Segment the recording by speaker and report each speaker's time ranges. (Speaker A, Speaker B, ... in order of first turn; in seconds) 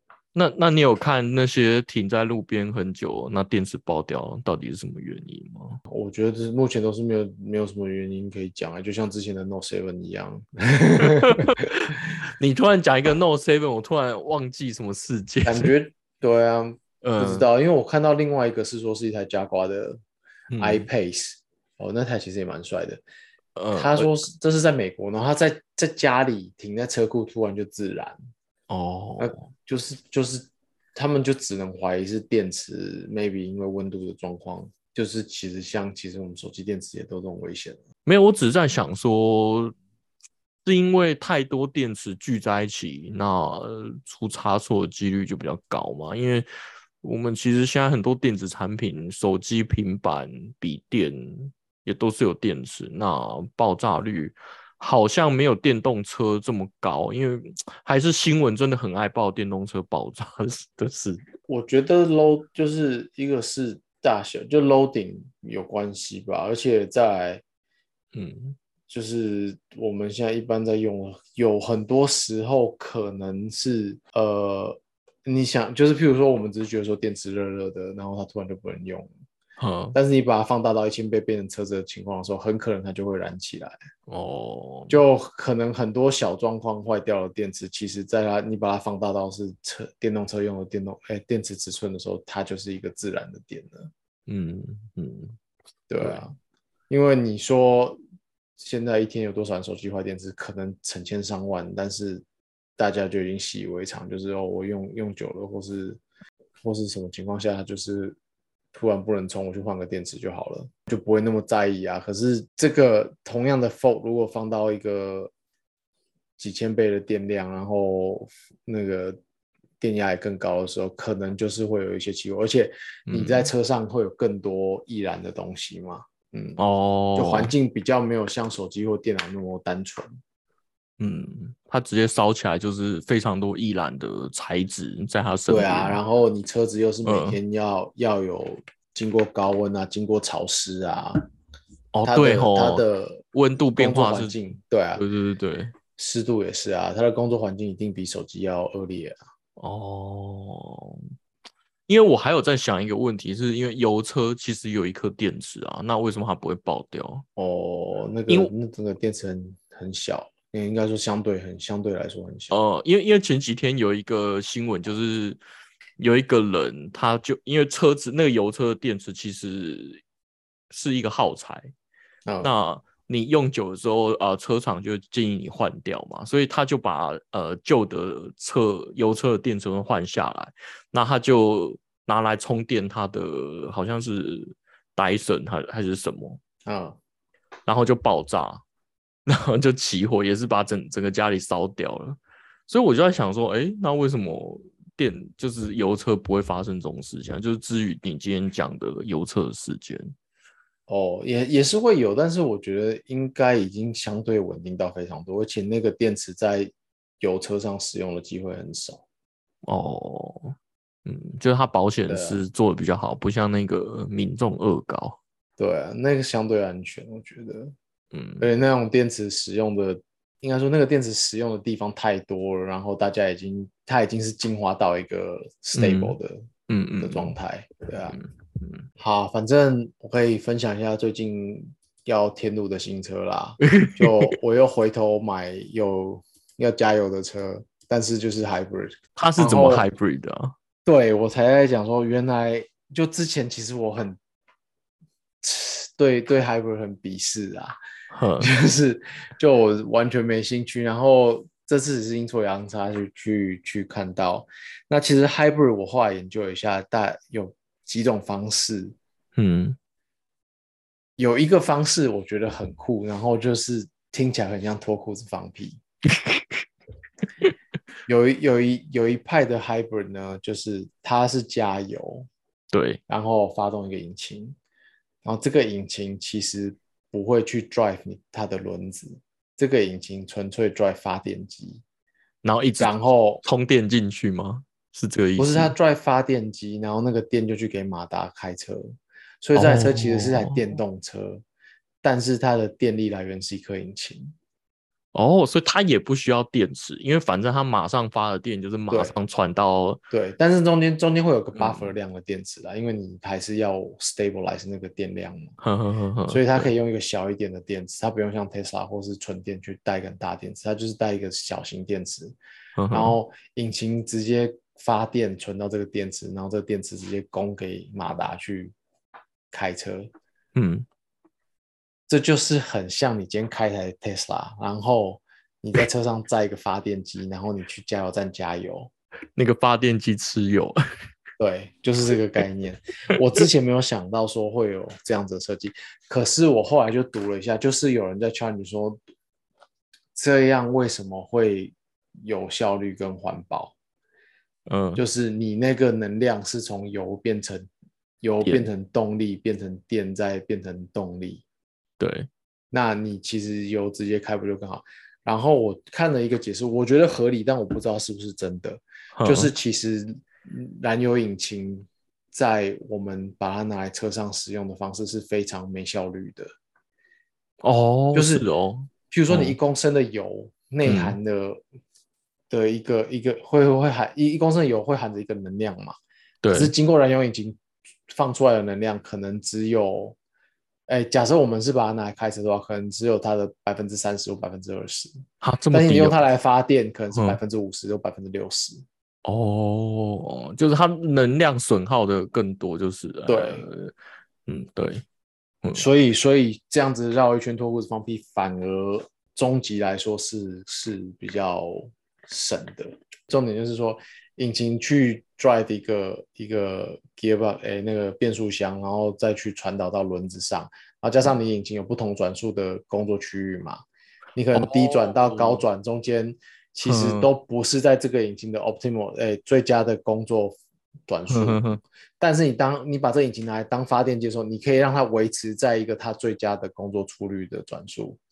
Speaker A: 0.3-5.8, 11.0-15.7, 17.0-17.5, 20.5-20.9, 23.6-24.2, 28.7-29.4, 38.0-39.7, 40.6-46.5, 47.0-61.2, 68.1-68.6, 79.6-80.0, 84.1-85.0, 94.3-95.4, 123.1-123.5, 126.6-127.5, 131.0-136.0, 137.0-137.4, 141.9-144.4, 144.9-145.7, 149.6-151.0, 151.9-157.2, 162.5-165.4, 166.0-170.0, 170.7-171.7, 172.4-186.4, 187.7-188.6, 189.3-200.1, 209.6-215.2, 218.1-218.4, 225.8-226.2, 226.7-227.3, 228.1-228.9, 233.6-234.3, 239.2-240.5, 248.1-248.5, 259.4-259.8, 266.1-266.6, 272.7-273.0, 282.4-282.9, 283.4-285.7, 289.5-290.8, 295.1-300.0, 301.6-301.9, 305.6-306.7, 312.8-313.2, 320.5-320.9, 329.4-330.8, 344.7-345.0, 348.4-348.7, 352.0-352.3, 359.1-359.5, 367.6-369.6, 370.8-371.2, 376.4-376.7, 385.4-386.2, 387.1-387.4, 389.2-393.9, 394.4-395.0, 414.5-415.6, 416.8-417.3, 421.3-421.8
Speaker B: 5.9-11.7, 15.4-20.0, 20.6-23.0, 23.7-28.2, 29.2-37.8, 61.5-67.4, 68.9-79.1, 79.9-83.8, 84.9-93.9, 95.9-96.3, 96.9-98.0, 98.6-102.2, 102.8-106.0, 106.6-108.2, 108.7-115.3, 116.4-119.2, 119.8-126.6, 127.1-130.1, 135.5-141.2, 142.0-143.2, 143.8-145.0, 146.0-149.2, 157.3-162.5, 172.2-172.5, 186.7-187.0, 200.9-209.0, 212.1-212.4, 215.6-217.7, 218.4-226.5, 227.0-228.2, 229.0-239.8, 240.8-244.2, 245.4-247.8, 248.4-258.9, 261.2-265.8, 268.1-272.3, 273.1-274.6, 275.2-281.8, 282.8-283.4, 285.4-291.4, 292.0-294.3, 300.1-305.5, 306.3-312.4, 312.9-318.7, 319.5-320.1, 322.1-328.9, 331.4-339.0, 340.1-343.7, 344.9-347.7, 348.2-351.4, 352.7-366.5, 368.1-368.4, 369.1-371.6, 372.5-375.9, 376.5-380.1, 380.9-385.1, 385.7-388.8, 393.3-393.6, 395.7-413.8, 414.3-421.6, 422.2-428.2